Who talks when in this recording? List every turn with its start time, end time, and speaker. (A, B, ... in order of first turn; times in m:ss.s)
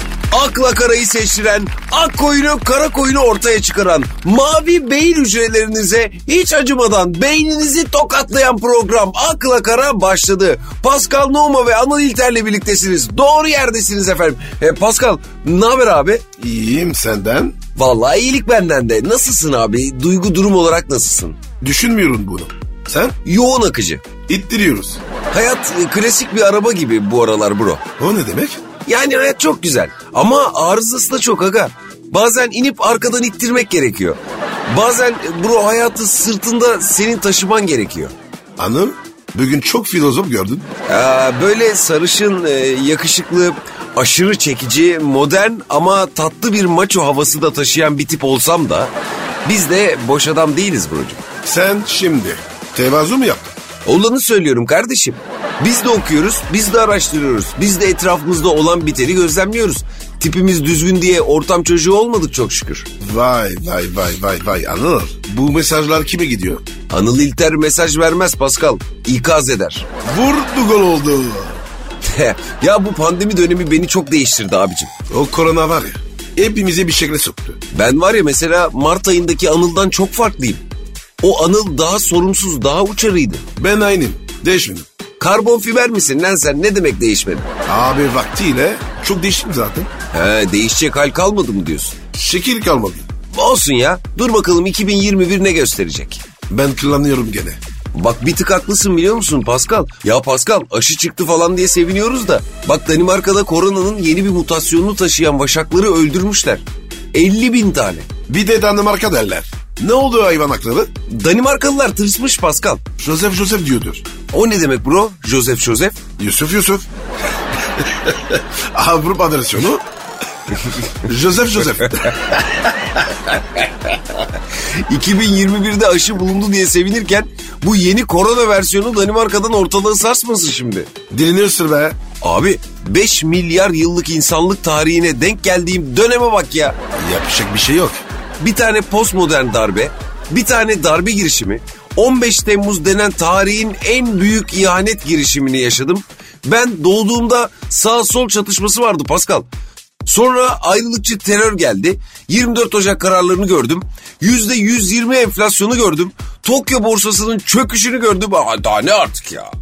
0:00.3-0:16.2 A
0:16.4-0:17.6 B
0:17.8-0:21.4 A
0:21.6-0:23.2 B
0:23.2-0:24.0 A
0:24.3-0:25.0 B
0:25.3-0:27.8 A
0:28.0-0:28.6 B
0:28.8-0:38.1 A
0:38.6-0:40.7 B
0:40.9-0:48.9 A
0:49.4-0:51.2 A
0:51.4-0:53.5 B
0:53.8-1:02.9 A
1:03.0-1:06.6 B
1:06.9-1:09.9 A
1:10.0-1:11.6 B
1:12.0-1:14.9 A
1:15.1-1:17.6 B
1:17.7-1:20.6 A
1:21.2-1:23.4 A
1:23.6-1:24.9 B
1:25.2-1:27.5 A
1:27.7-1:29.9 B
1:30.1-1:32.0 A
1:32.1-1:33.1 B
1:33.3-1:36.2 A
1:36.5-1:37.6 B
1:37.9-1:48.1 A
1:48.3-1:50.9 B
1:51.1-1:52.8 A
1:53.0-1:54.1 B
1:54.3-1:56.0 A
1:56.2-1:56.9 B
1:57.8-1:59.8 B
2:01.0-2:03.0 B
2:04.2-2:10.9 A
2:11.1-2:12.0 B
2:12.2-2:16.8 A
2:17.0-2:18.0 B
2:18.4-2:29.5 A
2:30.0-2:39.5 A